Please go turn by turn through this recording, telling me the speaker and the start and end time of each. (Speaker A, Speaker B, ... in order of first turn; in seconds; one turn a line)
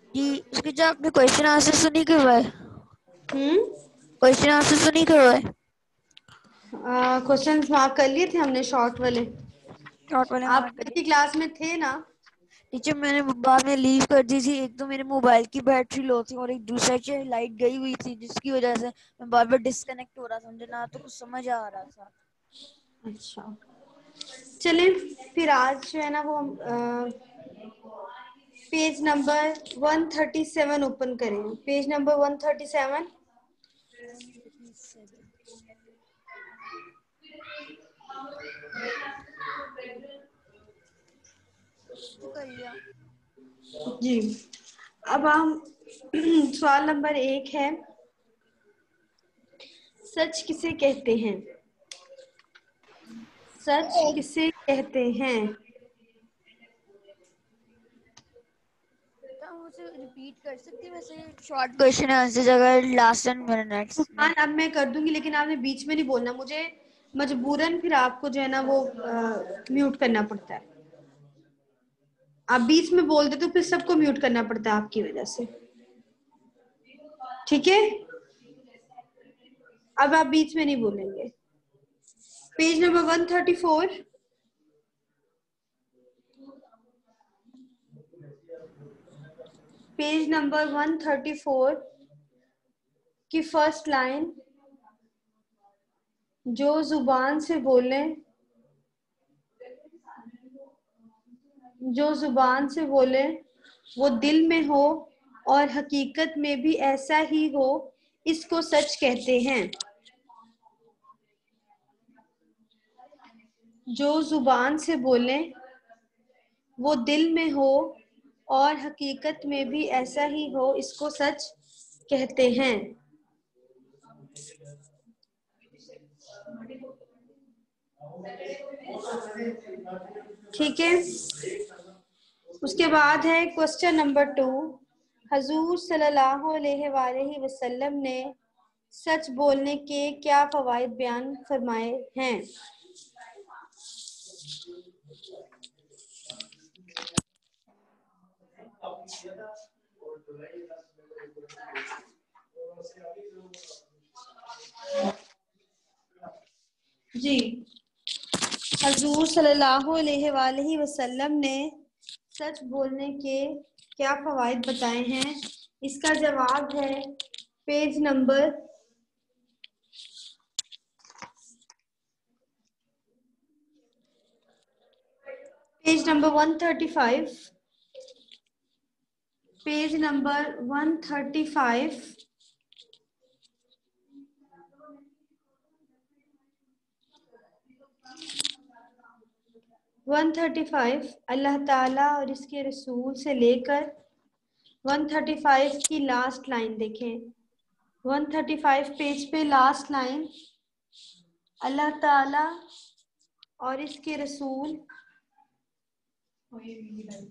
Speaker A: 0.1-2.5
Speaker B: 3.3-3.6
Speaker A: 4.2-5.5
Speaker B: 6.8-9.3
Speaker A: 10.1-10.9
Speaker B: 10.5-12.0
Speaker A: 12.7-22.1
Speaker B: 23.1-23.5
Speaker B: 24.6-27.1
Speaker B: 28.7-33.1
Speaker A: 34.2-35.3
Speaker A: 42.1-42.8
Speaker B: 43.8-44.3
Speaker B: 45.1-47.8
Speaker B: 50.1-51.4
Speaker B: 53.6-55.5
Speaker A: 59.4-64.3
Speaker B: 64.0-70.6
Speaker B: 72.5-75.5
Speaker B: 77.5-78.0
Speaker B: 80.0-81.3
Speaker B: 82.6-84.0
Speaker B: 90.0-91.8
Speaker B: 93.3-94.3
Speaker B: 96.5-98.2
Speaker B: 101.8-103.4
Speaker B: 104.0-109.7
Speaker B: 113.9-115.5
Speaker B: 116.8-118.0
Speaker B: 118.5-121.5
Speaker B: 122.1-122.9
Speaker B: 130.5-131.0
Speaker B: 132.6-138.3
Speaker B: 138.9-142.4
Speaker B: 157.2-157.6
Speaker B: 158.8-161.7
Speaker B: 162.3-167.0
Speaker B: 167.7-168.5
Speaker B: 175.8-177.4
Speaker B: 179.6-182.1
Speaker B: 190.1-193.9
Speaker B: 194.8-197.2
Speaker B: 198.0-200.3
Speaker B: 201.6-202.5
Speaker B: 203.6-204.8